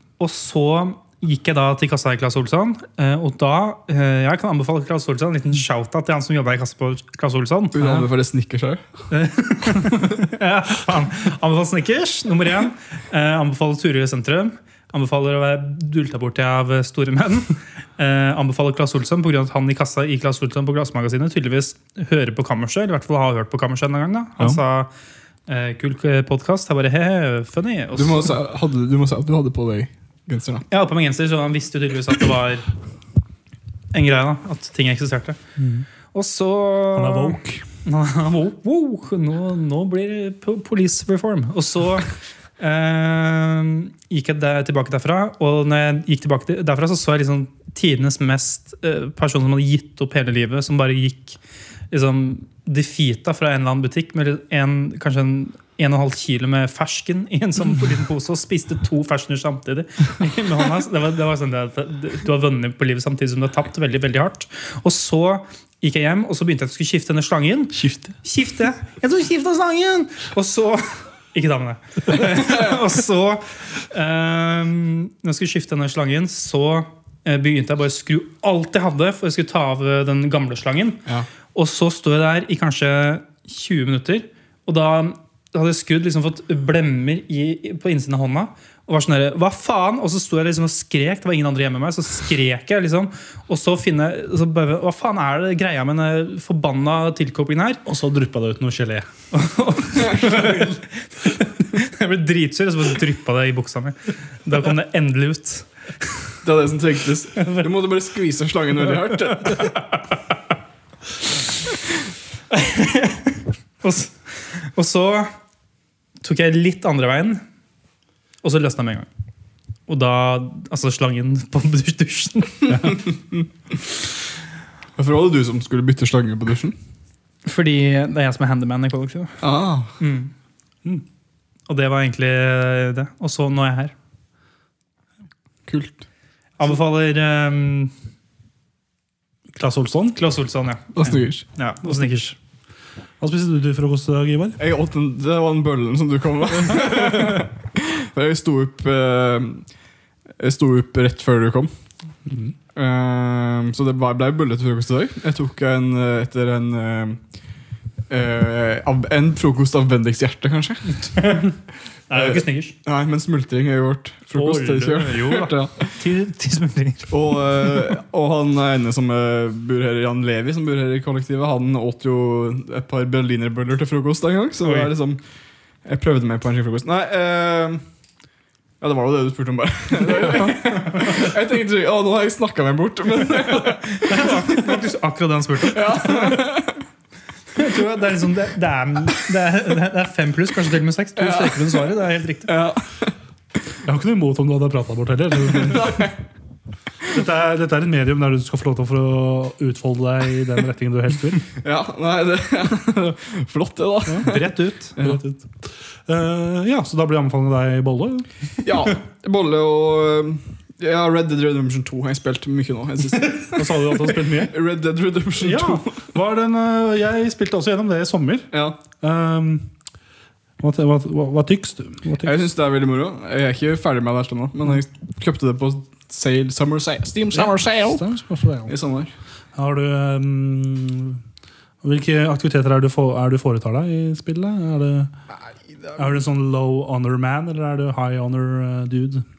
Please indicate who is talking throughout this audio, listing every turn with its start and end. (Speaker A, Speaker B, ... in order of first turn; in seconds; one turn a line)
Speaker A: 0.2-8.1
Speaker B: 7.7-8.8
Speaker A: 9.1-24.9
Speaker A: 25.5-28.4
Speaker B: 27.9-30.7
Speaker A: 30.7-32.7
Speaker A: 33.9-35.4
Speaker C: 35.6-35.9
Speaker A: 36.1-51.4
Speaker C: 36.9-37.6
Speaker A: 51.9-81.0
Speaker C: 67.8-68.1
Speaker A: 81.5-97.8
Speaker C: 97.9-99.1
Speaker A: 99.3-105.7
Speaker B: 100.3-100.6
Speaker B: 106.4-109.7
Speaker A: 112.5-115.3
Speaker A: 116.2-117.4
Speaker A: 118.4-119.1
Speaker A: 119.9-123.0
Speaker B: 125.0-126.8
Speaker A: 127.5-129.4
Speaker B: 129.4-130.0
Speaker A: 130.0-130.3
Speaker A: 131.7-133.9
Speaker B: 135.7-136.0
Speaker A: 136.6-137.9
Speaker C: 139.6-140.2
Speaker A: 140.2-142.4
Speaker B: 141.0-141.4
Speaker C: 143.2-144.6
Speaker B: 144.6-149.7
Speaker B: 150.4-151.7
Speaker C: 152.3-152.5
Speaker B: 152.8-157.2
Speaker B: 158.1-161.2
Speaker A: 160.9-161.5
Speaker A: 162.1-162.7
Speaker B: 162.1-165.9
Speaker A: 164.3-167.2
Speaker B: 167.1-175.2
Speaker B: 175.8-177.8
Speaker B: 178.8-184.8
Speaker A: 183.5-186.6
Speaker B: 185.7-186.8
Speaker A: 187.5-192.6
Speaker B: 191.2-193.1
Speaker C: 193.8-196.1
Speaker B: 195.6-196.2
Speaker C: 197.1-201.5
Speaker B: 201.6-205.2
Speaker C: 204.1-204.3
Speaker A: 204.2-204.9
Speaker C: 205.0-208.3
Speaker B: 208.6-216.0
Speaker C: 213.5-214.6
Speaker C: 215.4-219.7
Speaker B: 218.5-218.8
Speaker C: 220.6-222.4
Speaker B: 222.2-228.0
Speaker C: 227.3-228.8
Speaker B: 228.7-229.1
Speaker C: 229.6-231.2
Speaker C: 231.8-235.1
Speaker B: 235.5-236.0
Speaker C: 236.0-239.2